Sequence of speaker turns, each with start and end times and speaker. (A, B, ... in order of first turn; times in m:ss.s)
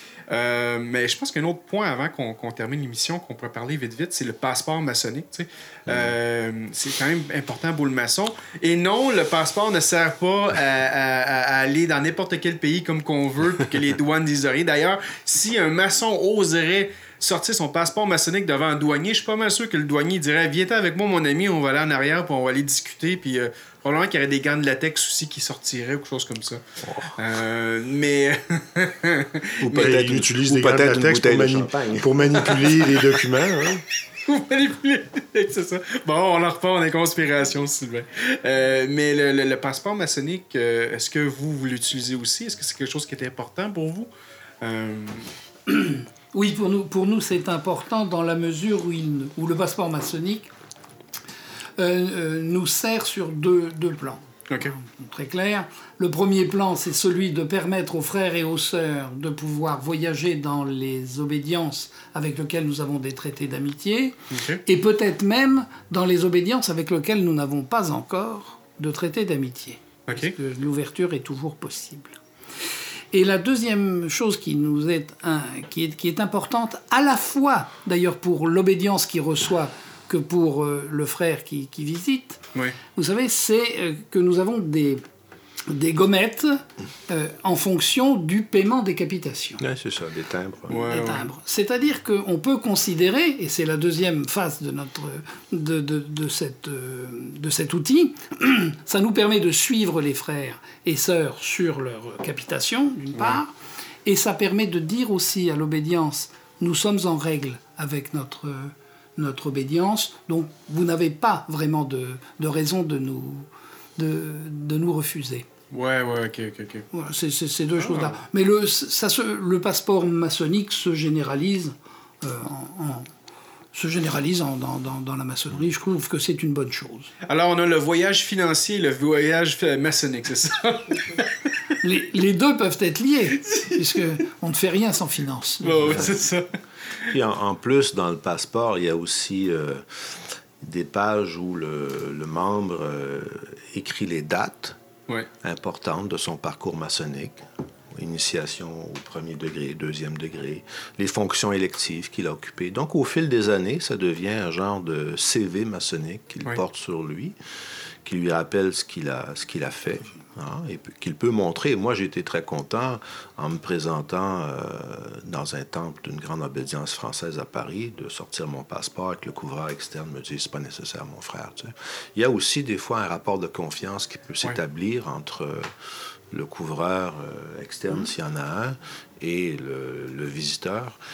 0:00.3-0:26.6 A
0:05.9-0:06.2 B
0:26.8-0:27.2 B
0:27.2-0:30.0 A
0:29.6-0:33.1 B
0:29.7-0:33.8 C
0:34.3-0:44.1 A
0:44.6-0:45.3 A
0:45.7-0:50.5 D
0:51.8-1:12.2 D
1:04.3-1:04.6 A
1:10.1-1:10.3 A
1:13.1-1:22.4 D
1:23.0-1:25.0 D
1:25.7-1:29.6 D
1:29.6-1:31.1 B
1:30.7-1:31.3 A
1:30.9-1:43.5 D
1:44.0-1:55.5 D
1:55.7-1:56.9 A
1:56.9-2:03.1 D
1:57.8-1:58.2 A
2:03.7-2:07.1 D
2:07.2-2:11.3 A
2:11.8-2:16.1 D
2:13.4-2:13.8 A
2:15.6-2:16.5 A
2:15.9-2:16.1 B
2:17.1-2:24.8 B
2:25.4-2:37.4 B
2:38.0-2:55.7 B
2:56.3-3:01.0 B